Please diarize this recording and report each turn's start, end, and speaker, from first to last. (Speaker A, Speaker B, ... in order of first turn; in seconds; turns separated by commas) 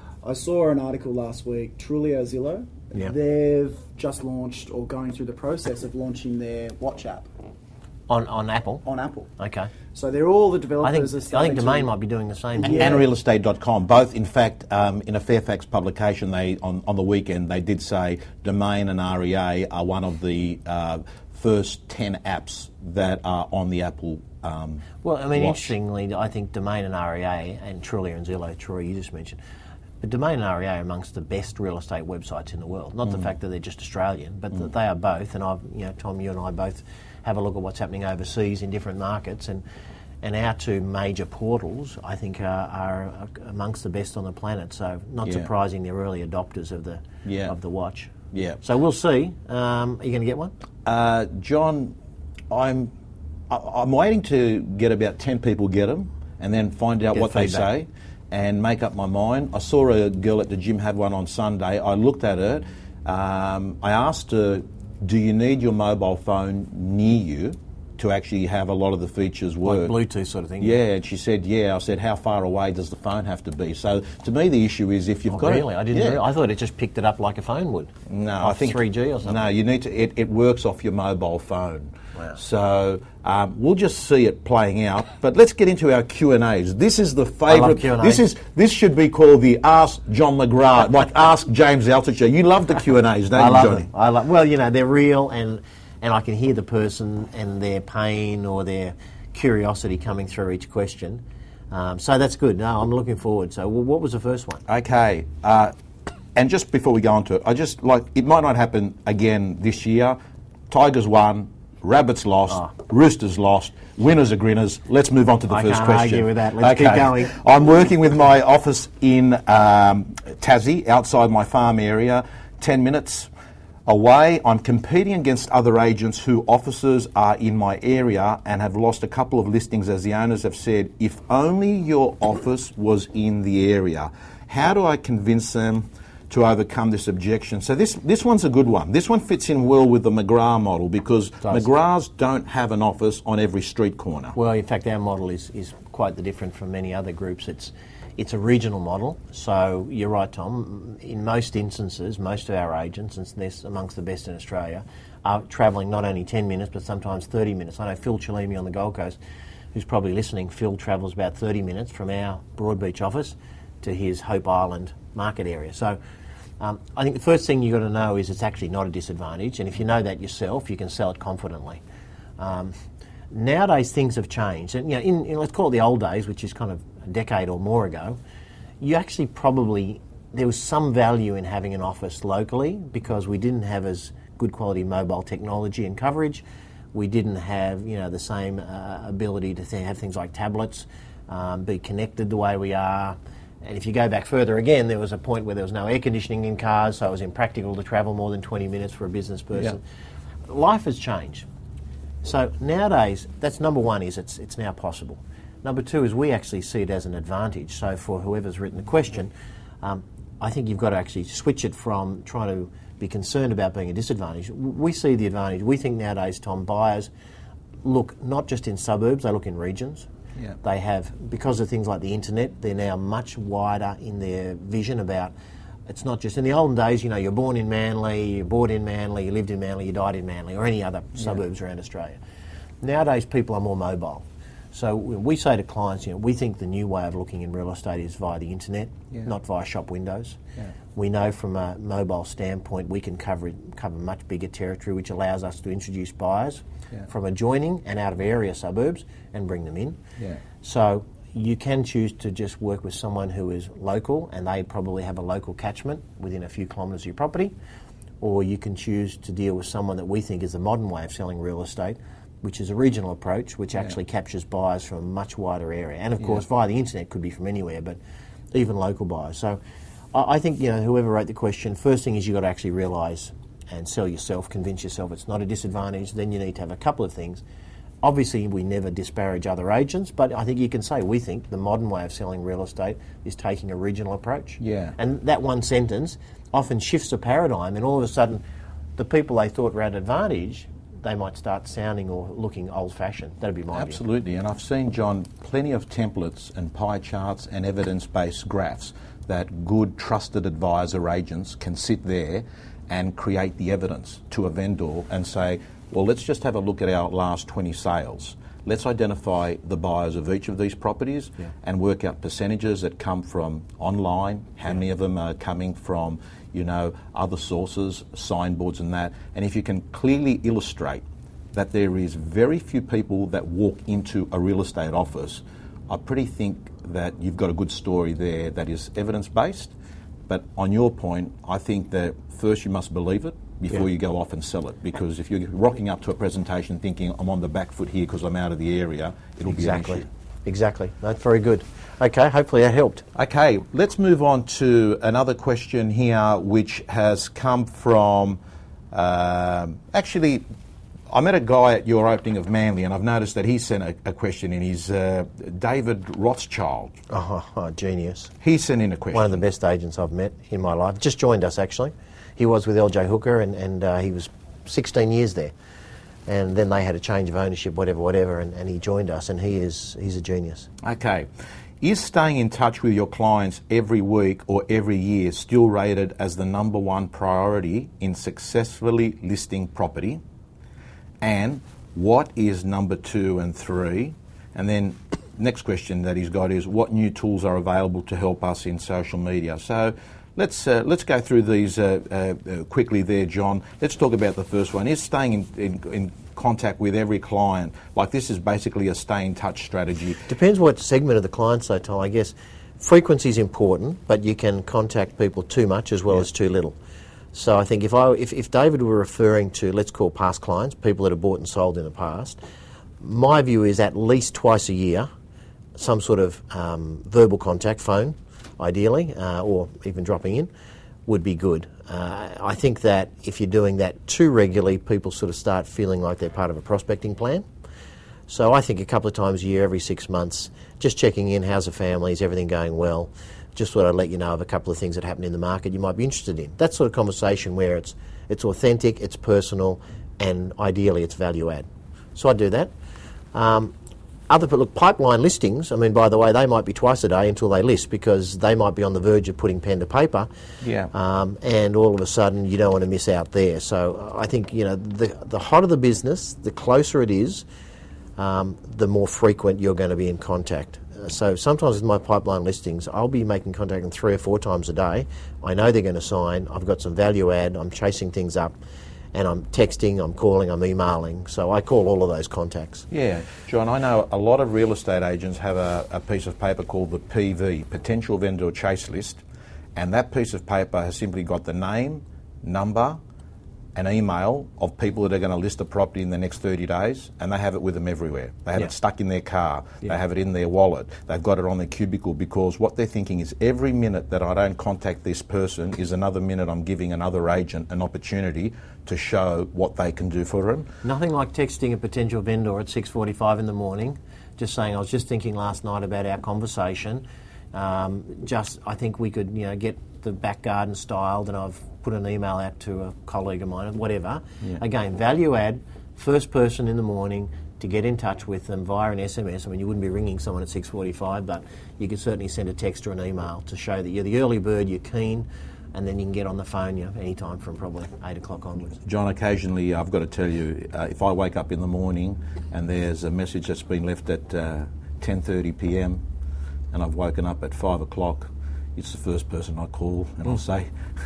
Speaker A: 0.2-7.3, Speaker B: 8.1-8.8, Speaker A: 8.8-9.3, Speaker B: 9.4-9.7, Speaker A: 9.9-11.9, Speaker B: 10.8-13.0, Speaker A: 12.6-13.0, Speaker C: 12.6-25.8, Speaker B: 25.0-29.4, Speaker B: 30.0-39.6, Speaker B: 40.2-50.5, Speaker C: 45.2-45.5, Speaker C: 47.2-47.5, Speaker C: 48.3-48.6, Speaker C: 50.9-52.0, Speaker C: 52.5-52.9, Speaker C: 53.5-69.9, Speaker B: 57.1-57.7, Speaker B: 69.6-70.8, Speaker C: 70.6-76.2, Speaker B: 75.3-79.5, Speaker C: 78.1-93.9, Speaker B: 87.5-88.3, Speaker B: 93.3-104.6, Speaker C: 104.7-105.7, Speaker C: 106.4-110.2, Speaker C: 110.7-123.3, Speaker B: 115.5-117.4, Speaker C: 123.9-144.4, Speaker B: 144.3-159.2, Speaker B: 159.7-166.0, Speaker B: 166.6-171.8, Speaker B: 172.4-172.7, Speaker B: 173.3-178.2, Speaker B: 178.8-199.8, Speaker B: 200.5-201.5, Speaker B: 202.2-217.1, Speaker B: 217.8-220.1, Speaker B: 220.6-225.3, Speaker B: 225.9-232.2, Speaker B: 232.8-240.4, Speaker B: 240.9-250.0, Speaker B: 250.6-257.5, Speaker B: 258.2-268.0, Speaker B: 268.5-269.6, Speaker B: 270.1-277.4, Speaker B: 278.0-288.4, Speaker C: 284.6-284.9, Speaker B: 289.0-294.0, Speaker C: 293.7-329.7, Speaker C: 330.3-340.1, Speaker B: 339.5-343.1, Speaker C: 343.1-348.4, Speaker C: 348.9-350.4, Speaker C: 351.1-356.9, Speaker B: 357.1-358.3, Speaker C: 358.4-359.4, Speaker B: 359.1-365.5, Speaker B: 366.3-370.7, Speaker C: 370.8-371.3, Speaker C: 371.8-380.2, Speaker C: 381.2-400.2, Speaker B: 400.3-406.8, Speaker B: 407.3-412.4, Speaker B: 413.0-415.1, Speaker B: 415.8-420.5, Speaker B: 421.1-427.4, Speaker B: 428.3-442.7, Speaker B: 443.3-443.7, Speaker B: 444.3-450.3, Speaker C: 450.6-450.9, Speaker B: 450.9-457.5, Speaker B: 458.2-468.6, Speaker B: 469.1-472.9, Speaker C: 472.9-479.2, Speaker C: 479.8-483.0, Speaker C: 483.8-500.7, Speaker B: 500.8-528.8, Speaker C: 528.8-536.0, Speaker C: 536.7-540.7